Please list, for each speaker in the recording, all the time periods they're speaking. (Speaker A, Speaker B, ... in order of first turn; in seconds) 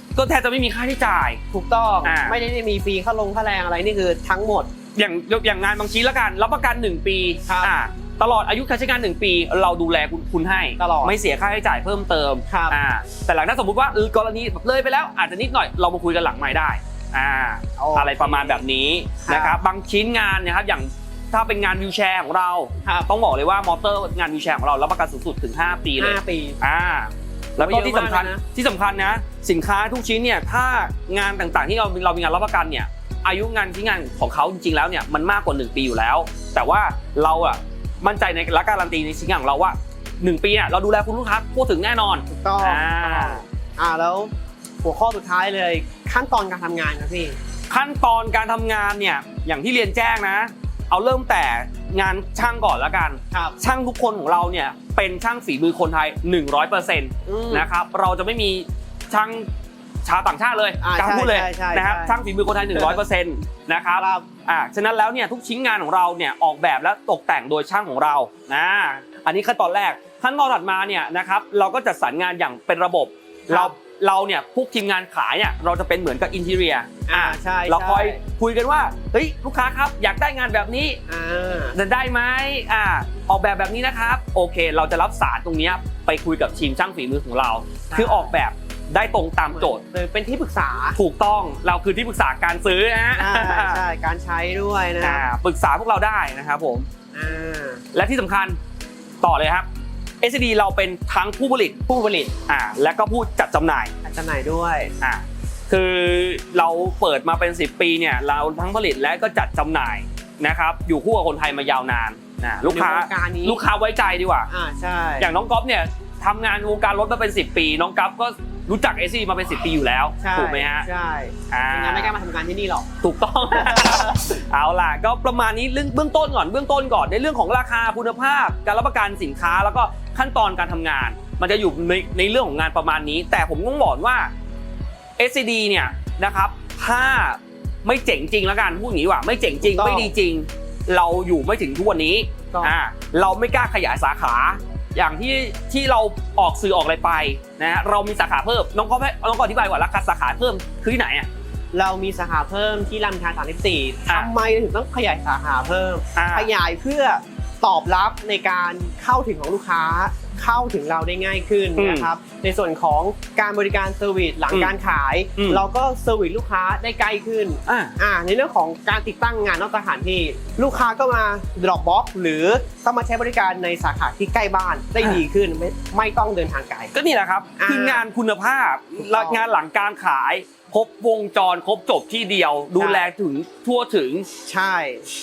Speaker A: 0.2-1.4, 2.0-2.4, 5.0-43.4, 47.7-59.5, 60.0-81.0, 81.7-89.8, 91.0-93.8, 95.0-96.9, 97.9-98.6, 99.2-99.7, 100.2-101.8, 102.5-103.9, 105.0-114.5, 115.2-120.9, 121.5-122.1, 123.0-134.3, 135.2-151.3, 156.2-156.5, 161.8-162.1, 165.3-165.6, 167.7-168.0, 176.9-184.3
Speaker B: 1.5-4.7, 7.5-7.7, 10.8-11.2, 12.5-12.8, 17.8-18.6, 19.2-19.6, 22.8-23.1, 26.0-26.6, 27.6-28.4, 42.3-44.3, 44.8-47.4, 53.3-53.6, 57.2-57.7, 60.8-62.2, 64.0-64.3, 73.5-73.7, 77.1-78.2, 81.1-81.8, 87.9-88.3, 89.5-91.0, 93.1-95.3, 97.1-97.8, 101.9-102.3, 104.0-104.9, 112.7-113.6, 114.5-115.3, 120.2-122.9, 123.5-124.2, 139.6-140.1, 151.7-176.9, 177.6-178.0, 179.0-179.4, 182.8-183.1, 184.5-185.1